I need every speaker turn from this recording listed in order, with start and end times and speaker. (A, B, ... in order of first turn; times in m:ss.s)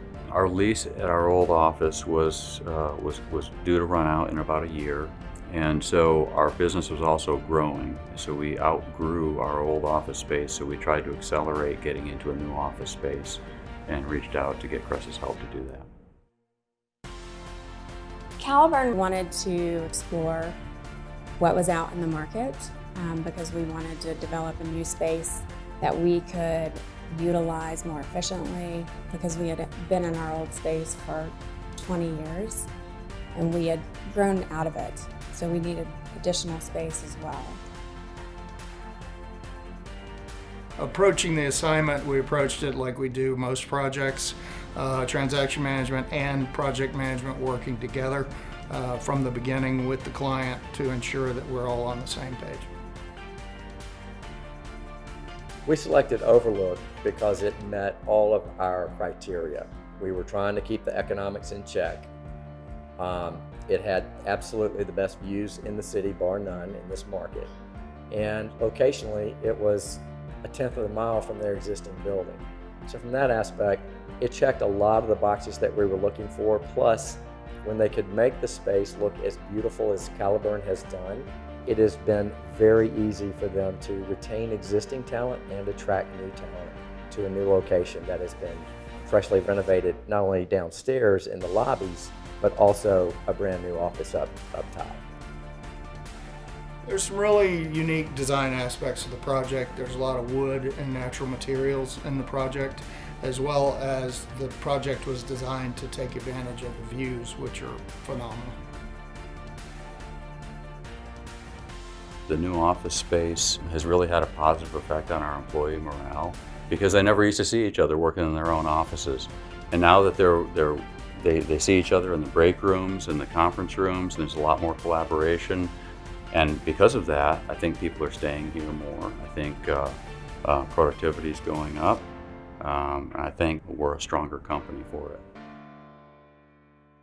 0:00.3-0:15.9 A
0:18.4-0:20.6 B
0:21.4-0:32.7 B
0:33.3-0:37.6 B
0:40.8-0:52.7 C
0:55.6-1:02.1 D
1:03.0-1:07.5 D
1:08.1-1:35.0 D
1:36.8-1:48.6 C
1:52.3-2:05.7 A
2:06.3-2:15.2 A